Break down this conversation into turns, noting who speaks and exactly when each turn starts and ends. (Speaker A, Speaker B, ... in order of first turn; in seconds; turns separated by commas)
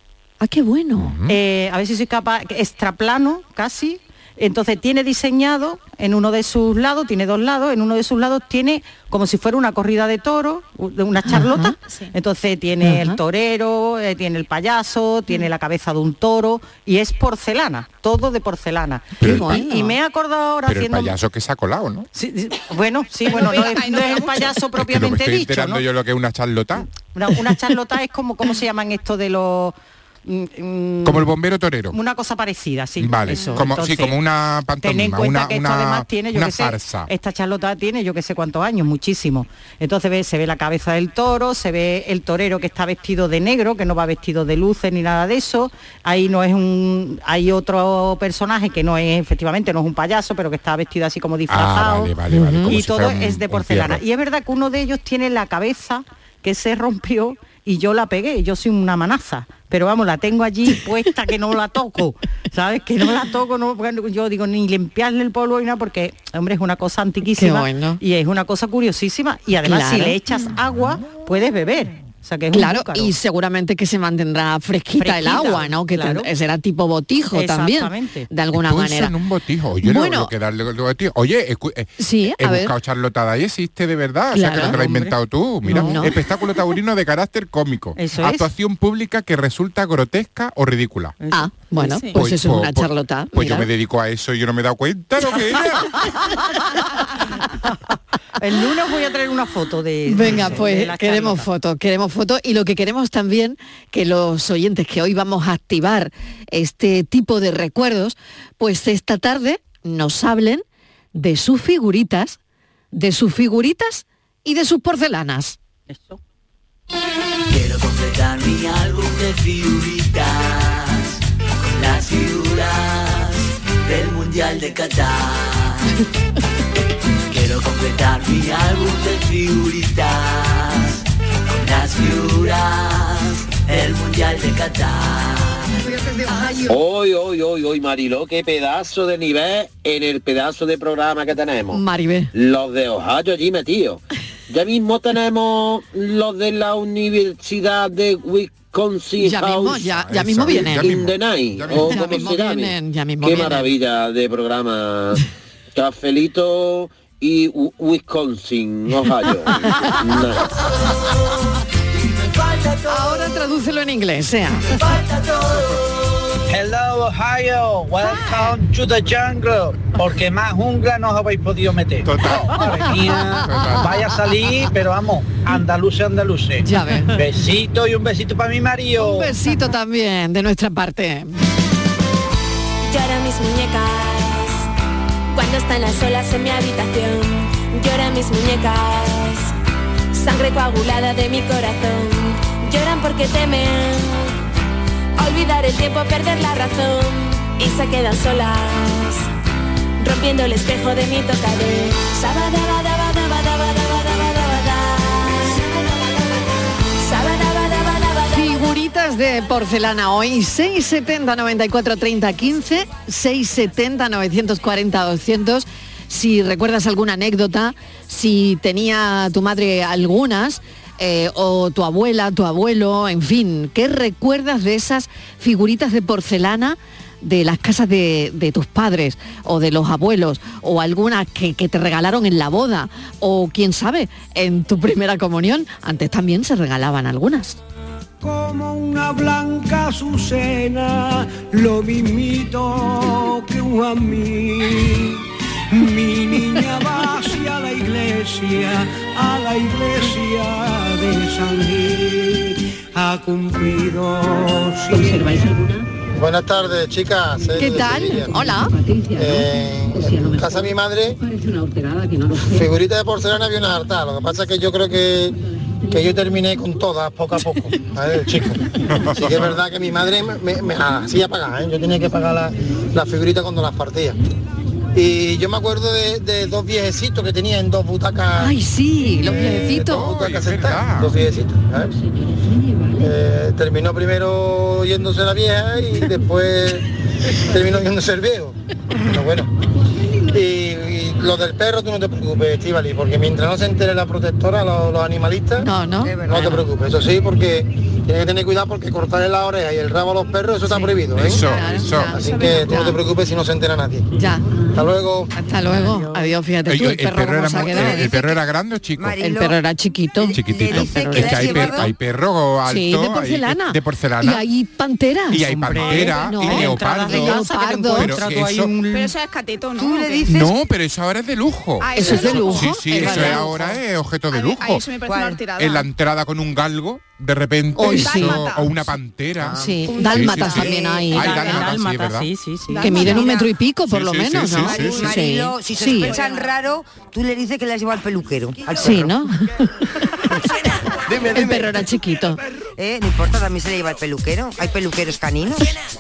Speaker A: 0.4-1.1, Speaker B: 1.0-1.4, Speaker C: 1.3-21.1, Speaker A: 11.3-11.7, Speaker D: 11.8-12.1, Speaker A: 12.8-13.2, Speaker B: 19.2-19.5, Speaker A: 19.2-20.0, Speaker B: 20.7-22.1, Speaker C: 22.1-25.9, Speaker D: 23.3-24.6, Speaker B: 24.8-26.9, Speaker C: 27.1-31.3, Speaker B: 31.0-32.0, Speaker C: 31.9-34.2, Speaker B: 33.0-37.1, Speaker D: 33.3-33.7, Speaker C: 34.8-73.2, Speaker B: 51.5-54.0, Speaker A: 52.3-52.8, Speaker A: 67.3-68.0, Speaker A: 69.6-70.2, Speaker A: 72.5-79.1, Speaker C: 75.0-76.3, Speaker C: 77.3-78.3, Speaker B: 78.5-91.2, Speaker A: 79.8-80.3, Speaker A: 82.0-82.7, Speaker A: 84.3-84.8, Speaker C: 84.5-86.1, Speaker A: 85.7-86.2, Speaker C: 88.0-88.5, Speaker C: 91.2-91.7, Speaker A: 91.3-93.7, Speaker D: 91.8-92.2, Speaker B: 92.1-96.0, Speaker C: 97.2-97.7, Speaker C: 98.4-101.5, Speaker A: 100.1-112.4, Speaker A: 112.9-115.6, Speaker C: 115.9-116.2, Speaker E: 117.5-125.9, Speaker E: 127.3-135.7, Speaker A: 136.0-136.6, Speaker F: 136.6-141.8, Speaker A: 141.7-142.3, Speaker F: 142.3-149.9, Speaker A: 149.2-151.0, Speaker B: 149.7-152.3, Speaker F: 150.5-155.2, Speaker A: 151.7-153.7, Speaker F: 155.8-160.5, Speaker A: 162.9-164.8, Speaker G: 166.5-179.4, Speaker B: 172.0-172.6, Speaker B: 173.3-174.0, Speaker A: 176.6-177.2, Speaker A: 179.0-181.4, Speaker H: 182.9-184.7, Speaker H: 185.3-189.5, Speaker H: 190.1-194.3, Speaker H: 195.2-199.3, Speaker H: 200.0-205.7, Speaker H: 207.0-208.6, Speaker A: 208.3-237.6, Speaker I: 238.2-255.5, Speaker J: 256.2-258.5, Speaker A: 257.6-258.8, Speaker J: 259.1-261.2, Speaker J: 262.3-274.2, Speaker B: 268.9-269.6, Speaker J: 274.9-281.9, Speaker A: 278.4-280.2, Speaker B: 279.6-281.2, Speaker J: 282.9-289.5, Speaker J: 290.3-295.7, Speaker A: 295.6-296.6, Speaker K: 296.0-296.6, Speaker J: 296.3-301.4, Speaker A: 300.7-303.0, Speaker B: 301.1-302.2, Speaker J: 302.1-304.1, Speaker A: 304.1-304.5, Speaker J: 304.7-305.4, Speaker A: 305.4-308.2, Speaker C: 305.7-306.3, Speaker B: 306.7-309.2, Speaker K: 307.7-308.4, Speaker K: 309.0-309.6, Speaker A: 309.2-311.9, Speaker K: 310.2-311.9, Speaker B: 310.4-314.4, Speaker A: 312.7-318.2, Speaker B: 315.3-318.7, Speaker C: 315.6-319.1, Speaker D: 318.9-320.4, Speaker K: 319.8-320.5, Speaker B: 320.3-324.9, Speaker D: 321.8-323.6, Speaker A: 322.0-323.5, Speaker D: 324.3-325.9, Speaker K: 325.1-325.4, Speaker B: 325.6-332.3, Speaker A: 327.8-328.5, Speaker D: 327.8-328.8, Speaker K: 329.5-329.8, Speaker A: 329.6-331.5, Speaker D: 329.9-330.5, Speaker K: 330.6-331.0, Speaker C: 331.1-333.3, Speaker D: 332.7-333.5, Speaker A: 332.8-336.2, Speaker B: 333.9-335.1, Speaker K: 334.5-339.2, Speaker D: 336.0-336.5, Speaker A: 338.8-340.0, Speaker A: 341.2-342.4, Speaker K: 342.8-345.8